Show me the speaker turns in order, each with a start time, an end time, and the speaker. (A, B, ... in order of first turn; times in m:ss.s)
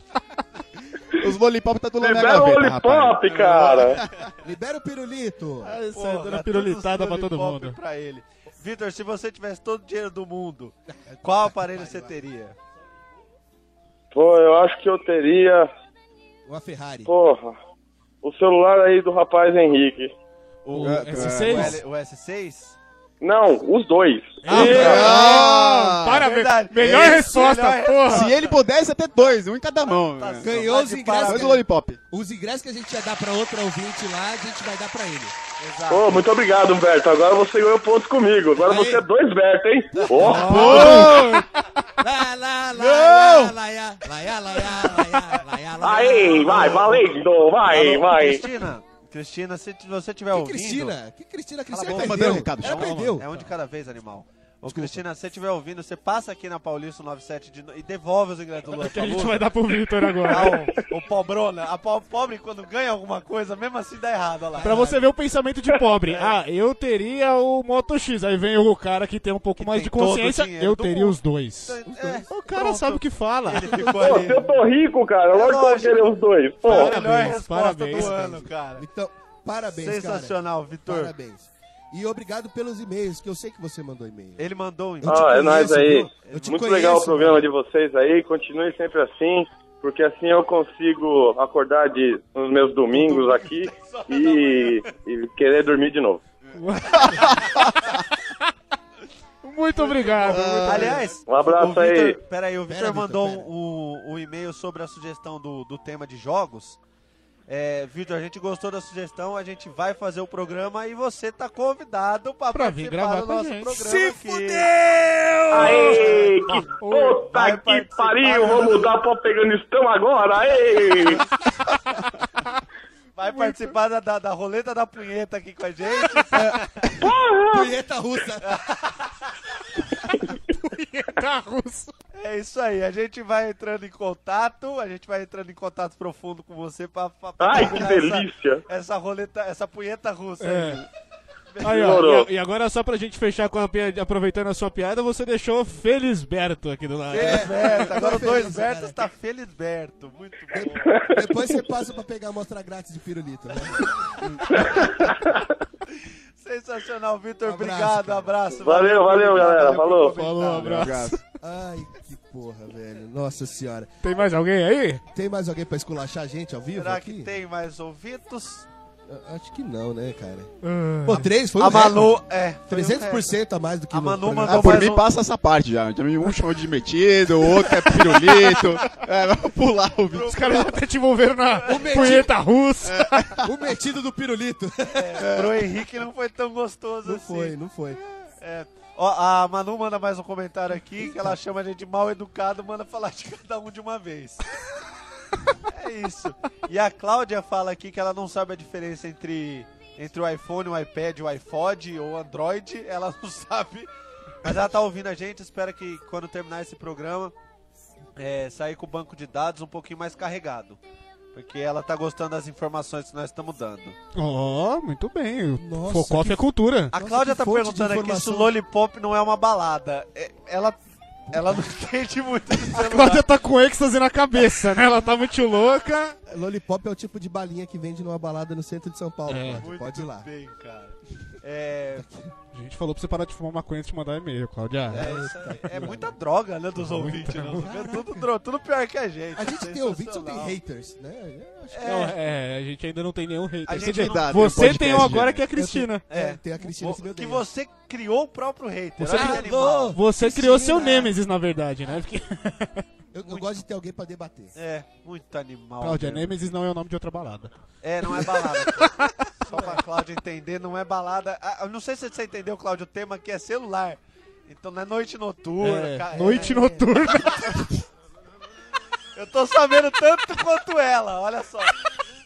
0:01.1-0:04.2 A
0:02.0-0:04.0 B
0:03.2-0:04.3 C
0:04.4-0:05.8 D
0:05.6-0:07.8 E
0:05.9-0:12.6 C
0:10.9-0:12.1 D
0:14.1-0:15.7 B
0:16.4-0:17.1 D
0:17.0-0:17.6 B
0:18.2-0:20.1 B
0:20.6-0:21.8 A
0:20.7-0:21.8 E
0:20.8-0:22.8 C
0:23.2-0:25.0 B
0:24.4-0:28.3 E
0:24.5-0:25.5 D
0:24.5-0:27.4 A
0:24.5-0:24.7 C
0:26.2-0:28.6 C
0:28.1-0:32.0 A
0:29.8-0:31.6 C
0:30.4-0:35.4 D
0:35.6-0:36.2 C
0:35.9-0:40.9 B
0:38.6-0:39.0 D
0:39.9-0:41.2 D
0:40.0-0:41.3 C
0:40.2-0:41.5 E
0:40.6-0:41.2 A
0:42.0-0:47.0 D
0:42.7-0:43.5 E
0:44.6-0:47.0 C
0:45.8-0:48.6 B
0:47.6-0:51.0 C
0:50.3-0:53.3 D
0:51.7-0:59.5 C
0:51.8-0:53.2 A
0:54.7-0:55.0 D
0:58.7-1:00.6 E
1:00.2-1:05.0 C
1:04.5-1:05.0 D
1:04.6-1:13.9 E
1:06.1-1:06.3 C
1:09.6-1:14.5 C
1:11.9-1:12.2 D
1:13.7-1:14.3 D
1:13.8-1:17.0 B
1:15.3-1:16.1 C
1:16.6-1:18.8 C
1:16.6-1:18.5 E
1:17.9-1:24.5 D
1:19.7-1:21.1 C
1:24.4-1:26.7 C
1:25.0-1:27.4 D
1:25.0-1:36.2 B
1:32.9-1:34.9 C
1:36.4-1:37.9 A
1:36.5-1:37.4 E
1:37.0-1:38.0 C
1:39.4-1:41.0 E
1:39.8-1:46.8 C
1:40.2-1:41.1 A
1:41.2-1:42.2 B
1:42.7-1:43.5 D
1:47.5-1:54.7 C
1:52.5-1:53.8 E
1:53.8-1:55.0 D
1:54.9-1:57.2 E
1:55.5-2:01.2 B
1:55.6-1:56.7 C
1:55.6-1:56.1 D
1:57.2-1:59.0 C
2:03.2-2:06.9 C
2:03.3-2:03.7 E
2:06.4-2:08.6 D
2:07.0-2:07.7 B
2:08.4-2:09.1 C
2:10.1-2:11.9 E
2:12.1-2:20.9 C
2:17.4-2:18.6 B
2:20.4-2:20.8 E
2:21.5-2:22.0 C
2:21.6-2:28.0 E
2:21.7-2:22.3 B
2:27.1-2:31.0 C
2:27.1-2:29.0 D
2:30.5-2:34.1 D
2:30.8-2:31.2 B
2:34.3-2:35.1 A
2:34.5-2:35.5 B
2:36.4-2:40.9 C
2:37.4-2:38.3 D
2:38.6-2:40.2 B
2:40.2-2:41.2 E
2:40.6-2:41.2 A
2:41.4-2:43.9 D
2:44.0-2:45.0 E
2:45.1-2:47.3 D
2:46.7-2:48.6 C
2:49.1-2:50.5 D
2:50.6-2:51.3 E
2:51.0-2:54.9 D
2:51.6-2:53.4 C
2:53.9-2:55.0 C
2:54.4-3:00.5 A
2:57.9-2:58.6 E
3:00.1-3:00.8 C
3:00.3-3:03.3 E
3:01.5-3:02.2 C
3:01.6-3:02.3 D
3:02.8-3:03.5 A
3:03.4-3:05.5 D
3:04.9-3:07.6 C
3:07.0-3:08.3 D
3:08.4-3:14.4 C
3:11.0-3:11.4 D
3:15.6-3:23.9 C
3:24.4-3:27.3 C
3:28.2-3:30.8 C
3:31.3-3:34.0 C
3:34.1-3:36.9 E
3:35.6-3:38.5 D
3:36.9-3:40.8 C
3:41.3-3:43.2 C
3:41.3-3:41.6 D
3:42.7-3:46.2 E
3:46.3-3:50.3 D
3:49.3-3:49.6 E
3:49.6-3:52.0 C
3:52.0-3:52.3 D
3:52.5-3:55.1 E
3:54.9-3:56.1 D
3:54.9-4:00.6 C
3:56.8-3:57.7 E
3:57.6-3:58.3 D
3:59.4-4:02.1 D
4:01.7-4:02.1 C
4:01.8-4:06.0 E
4:03.7-4:05.0 C
4:03.8-4:05.4 A
4:05.5-4:07.4 D
4:06.1-4:10.0 C
4:09.0-4:12.8 E
4:09.0-4:11.1 D
4:13.1-4:14.5 D
4:13.2-4:13.5 C
4:14.5-4:16.3 C
4:15.8-4:17.5 E
4:17.8-4:27.4 C
4:18.1-4:19.7 E
4:25.6-4:27.8 E
4:26.2-4:26.7 D
4:29.1-4:31.8 C